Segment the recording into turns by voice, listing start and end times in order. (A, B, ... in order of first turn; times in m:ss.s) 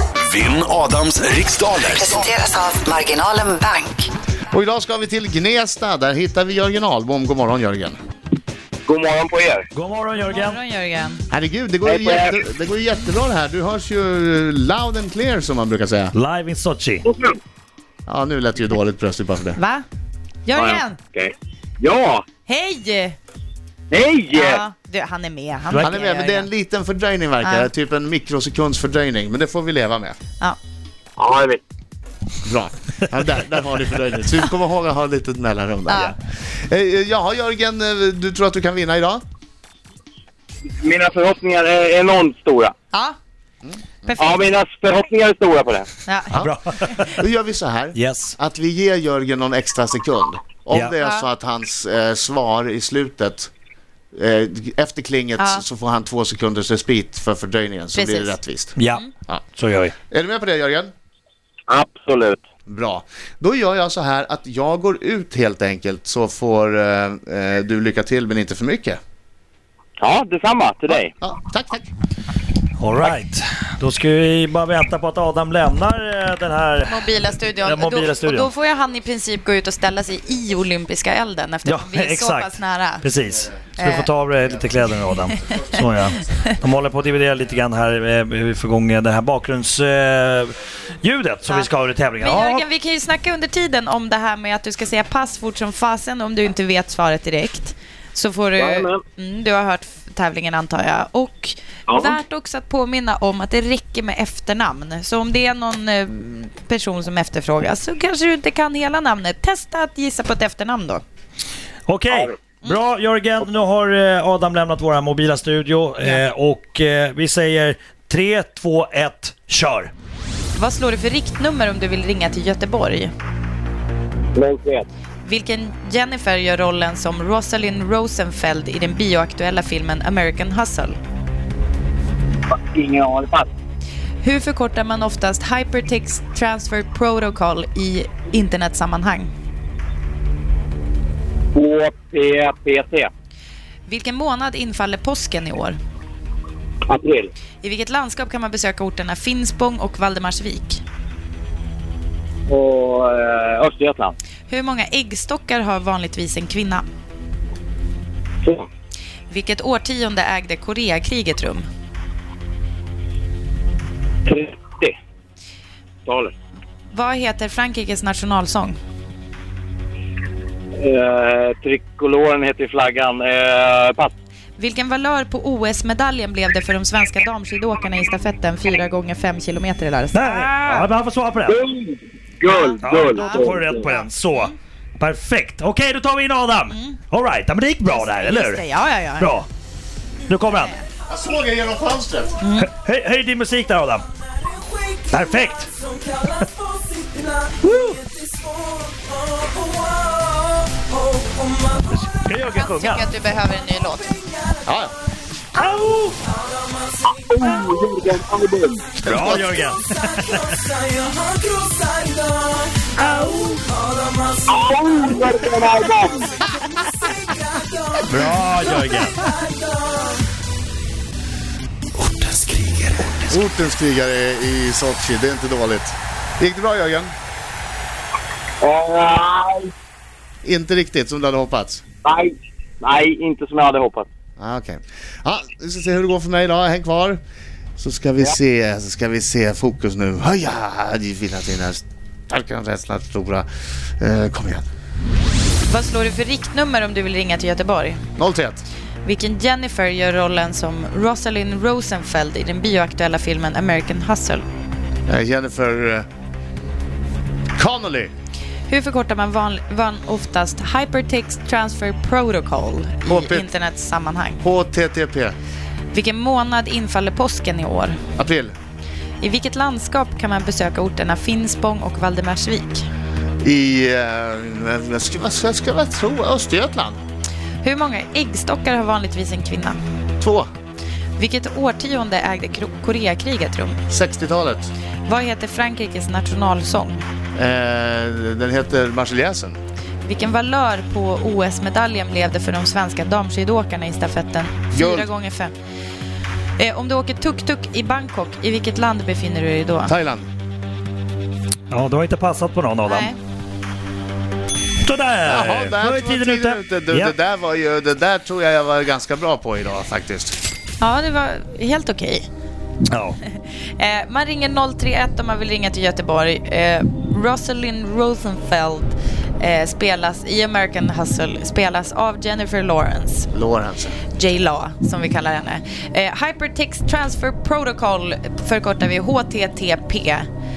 0:00.2-0:02.3 A
0:01.9-0:04.1 B
0:04.5-0:08.0 C
0:08.9-0:09.7 D
0:09.8-0:10.6 E
0:10.3-0:11.2 F
0:11.3-0:16.1 C
0:11.8-0:12.4 D
0:16.1-0:17.1 E
0:17.1-0:17.4 D
0:18.1-0:19.6 C
0:19.6-0:19.8 F
0:20.4-0:21.0 F
0:20.6-0:22.2 D
0:22.5-0:23.2 F
0:23.9-0:24.6 D
0:24.3-0:26.5 F
0:25.8-0:30.2 C
0:27.4-0:27.7 F
0:31.2-0:31.6 D
0:32.4-0:36.2 C
0:35.9-0:36.2 F
0:36.7-0:39.2 C
0:40.7-0:42.7 D
0:43.6-0:44.2 C
0:44.0-0:44.4 F
0:44.2-0:45.9 D
0:46.0-0:46.4 F
0:46.3-0:47.2 E
0:46.3-0:53.5 C
0:48.0-0:48.4 E
0:51.0-0:51.3 F
0:54.1-0:58.7 C
0:55.4-0:55.6 F
0:57.9-0:58.4 F
0:58.8-0:59.0 E
0:59.6-1:00.0 E
1:00.1-1:00.9 C
1:01.7-1:02.4 D
1:02.7-1:09.0 C
1:10.0-1:11.1 D
1:10.9-1:11.9 C
1:12.8-1:17.1 E
1:16.9-1:23.1 F
1:17.6-1:18.5 E
1:21.6-1:32.6 E
1:23.8-1:24.1 F
1:25.3-1:25.8 F
1:32.2-1:51.0 F
1:38.6-1:39.0 D
1:41.9-1:42.2 D
1:51.9-1:59.9 E
2:00.6-2:03.1 F
2:04.4-2:04.9 D
2:05.2-2:11.0 F
2:12.5-2:13.5 D
2:14.2-2:19.3 F
2:21.5-2:23.1 D
2:23.9-2:25.8 F
2:26.9-2:27.3 D
2:27.6-2:30.8 F
2:32.5-2:34.2 D
2:34.5-2:36.8 F
2:39.3-2:41.7 F
2:44.3-2:45.0 D
2:46.1-2:46.3 D
2:46.9-2:48.8 F
2:50.8-2:54.1 D
2:54.6-3:00.9 F
3:00.1-3:01.6 E
3:01.5-3:03.9 D
3:02.5-3:04.5 F
3:02.8-3:08.6 E
3:06.7-3:07.0 F
3:07.9-3:09.4 F
3:09.2-3:09.5 E
3:10.3-3:10.7 E
3:11.1-3:12.4 C
3:12.4-3:12.7 F
3:12.6-3:14.1 E
3:15.1-3:16.5 E
3:17.7-3:18.0 E
3:21.9-3:23.0 E
3:22.5-3:24.2 F
3:24.6-3:25.0 C
3:25.6-3:26.2 E
3:27.1-3:29.0 D
3:29.0-3:30.7 E
3:29.1-3:29.4 C
3:33.0-3:33.7 E
3:34.5-3:36.4 D
3:38.0-3:39.3 E
3:42.0-3:43.1 E
3:43.3-3:47.2 C
3:48.6-3:49.7 D
3:50.4-3:51.8 C
3:52.0-3:54.1 D
3:54.4-3:57.2 C
3:57.8-4:03.5 C
4:04.0-4:04.6 C
4:05.7-4:08.0 F
4:08.2-4:08.6 C
4:09.0-4:14.4 F
4:15.1-4:16.1 C
4:17.6-4:18.1 C
4:18.7-4:24.4 F
4:23.1-4:23.5 C
4:24.4-4:25.4 C
4:25.9-4:28.0 F
4:28.2-4:28.6 C
4:29.2-4:32.9 F
4:33.4-4:37.0 C
4:37.6-4:39.8 F
4:40.2-4:40.5 C
4:41.2-4:43.8 F
4:43.9-4:44.7 C
4:45.0-4:47.0 F
4:47.4-4:49.6 C
4:50.1-4:55.5 F
4:54.7-4:55.1 C
4:56.6-4:59.9 F
4:59.9-5:00.3 C
5:01.7-5:03.1 E
5:02.9-5:03.2 F
5:04.8-5:07.1 E
5:05.2-5:10.4 C
5:10.8-5:12.3 F
5:12.9-5:13.2 E
5:13.3-5:23.3 F
5:23.3-5:24.0 C
5:24.1-5:30.3 F